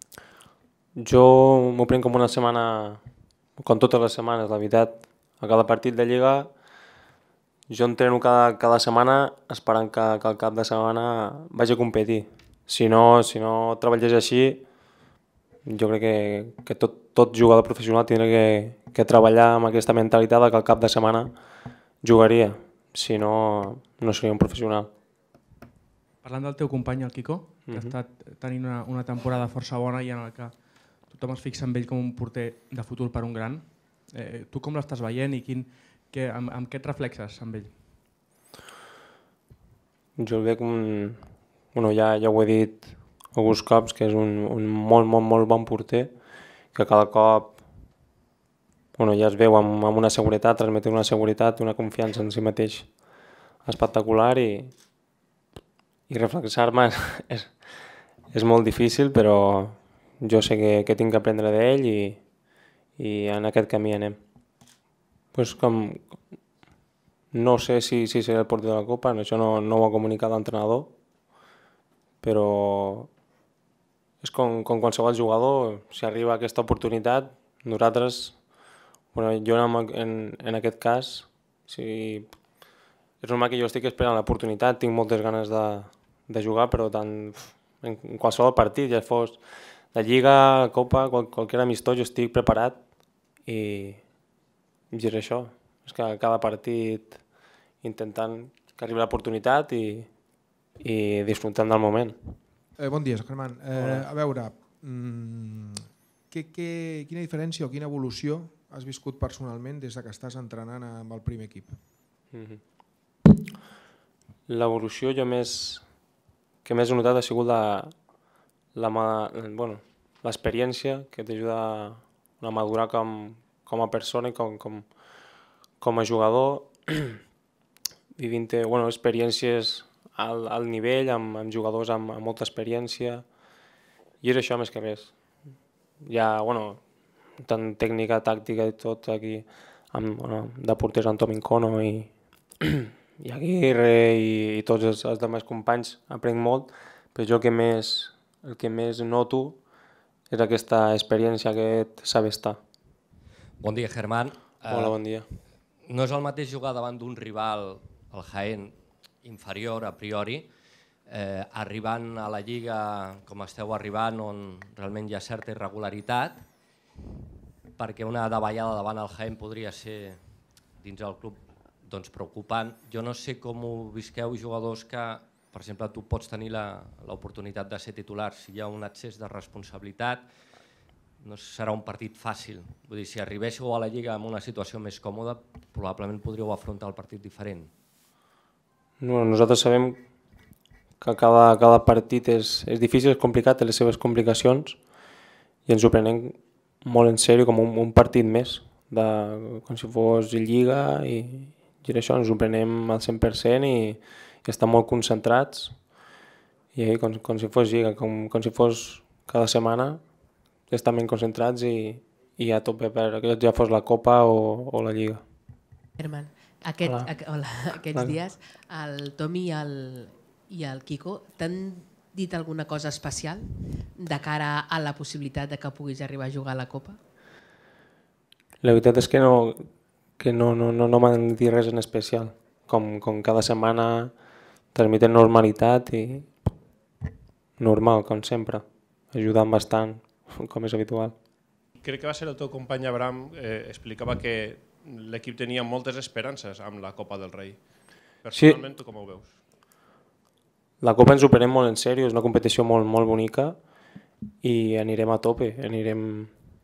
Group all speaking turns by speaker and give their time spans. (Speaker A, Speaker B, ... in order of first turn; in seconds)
Speaker A: 1.0-3.0, 3.6-6.5, 7.7-14.6, 15.7-21.3, 22.0-24.9, 27.7-28.0, 40.2-46.1, 46.7-47.6, 48.9-52.9, 53.6-54.7, 56.1-57.6, 58.3-62.2, 63.0-64.2, 65.3-66.2, 67.3-70.9, 72.2-73.1, 74.2-78.4, 79.1-82.3, 83.2-89.4, 89.9-92.8, 93.4-94.1, 94.9-97.2, 97.8-100.1, 100.8-102.3, 103.7-104.1, 112.3-112.6, 114.5-115.8, 116.6-117.9, 118.7-124.8, 125.8-127.2, 128.2-133.2, 134.2-135.1, 136.0-136.8, 137.4-149.6, 150.3-152.6, 154.7-155.3, 189.0-190.0, 191.0-194.8, 195.7-205.8, 206.7-210.0, 210.7-215.2, 228.6-229.6, 230.2-234.1, 234.7-236.3, 237.6-241.1, 250.8-253.6, 254.4-256.3
Speaker B: 26.2-37.9
Speaker C: 102.8-105.8, 106.3-111.8
Speaker D: 153.6-155.0, 155.9-160.5, 161.1-166.4, 167.8-170.2, 170.8-180.2, 181.2-187.7
Speaker E: 216.0-227.0
Speaker F: 241.8-249.4